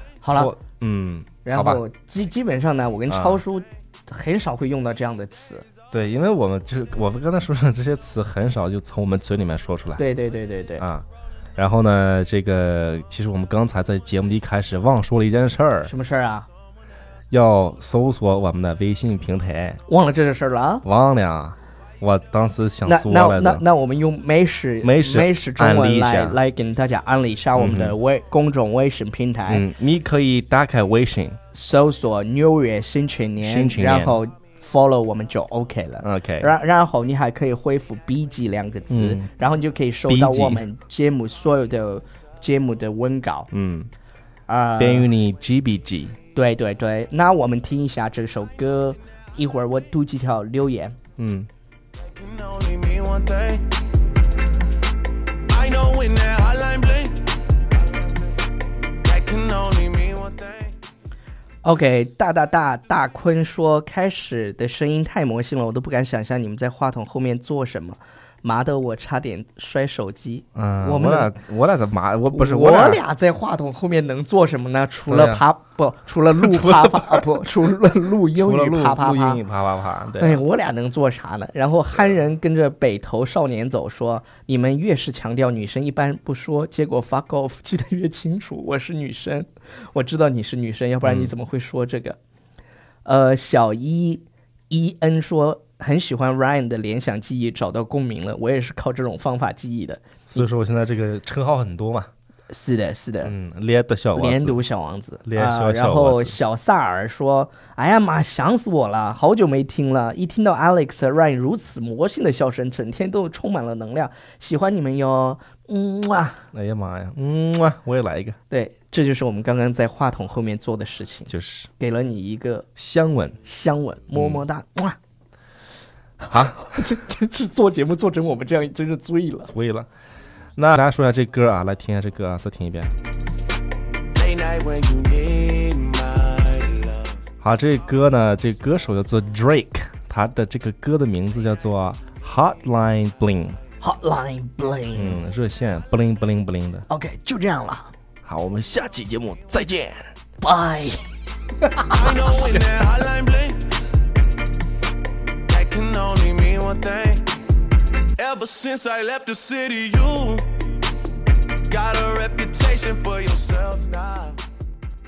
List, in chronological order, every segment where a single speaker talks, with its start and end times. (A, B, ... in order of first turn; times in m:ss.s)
0:00.2-0:00.6 A
0:00.3-0:01.8 B
0:01.4-0:05.6 A
0:03.1-0:03.4 B
0:05.9-0:10.0 B
0:10.0-0:10.8 A
0:10.8-0:15.9 B
0:15.8-0:16.5 A
0:17.3-0:19.8 B
0:19.9-0:20.8 A
0:20.8-0:23.6 B
0:22.8-0:29.6 A
0:24.8-0:26.4 B
0:27.5-0:28.0 B
0:29.5-0:31.4 B
0:31.5-0:43.5 A
0:33.4-0:34.2 B
0:36.0-0:36.5 B
0:38.9-0:39.3 B
0:40.1-0:40.6 B
0:43.5-0:43.9 B
0:44.5-0:45.1 A
0:44.8-0:46.2 B
0:46.3-0:51.0 A
0:51.2-0:51.5 B
0:52.1-0:53.7 C
0:55.5-0:57.3 C
0:59.0-1:00.7 C
1:01.6-1:11.3 A
1:10.5-1:13.0 B
1:12.3-1:19.4 A
1:15.1-1:15.4 B
1:16.4-1:17.3 B
1:18.3-1:20.4 B
1:20.2-1:32.2 A
1:31.0-1:31.3 B
1:33.0-1:40.5 A
1:40.3-1:42.1 B
1:42.5-1:43.3 A
1:43.2-1:44.6 B
1:44.1-1:56.4 A
1:45.2-1:46.4 B
1:56.5-1:58.4 B
1:58.5-2:02.7 A
2:01.3-2:01.7 B
2:02.8-2:03.4 B
2:03.4-2:05.0 A
2:04.1-2:04.4 B
2:06.3-2:09.5 A
2:06.3-2:06.9 B
2:09.5-2:09.9 B
2:10.6-2:12.9 B
2:14.1-2:17.2 C
2:17.4-2:23.6 B
2:23.8-2:25.2 A
2:24.9-2:26.8 B
2:26.9-2:27.9 A
2:28.2-2:30.1 B
2:30.4-2:31.0 A
2:31.6-2:32.9 A
2:31.9-2:33.7 C
2:35.5-2:37.4 C
2:38.2-2:40.6 C
2:41.7-2:44.4 C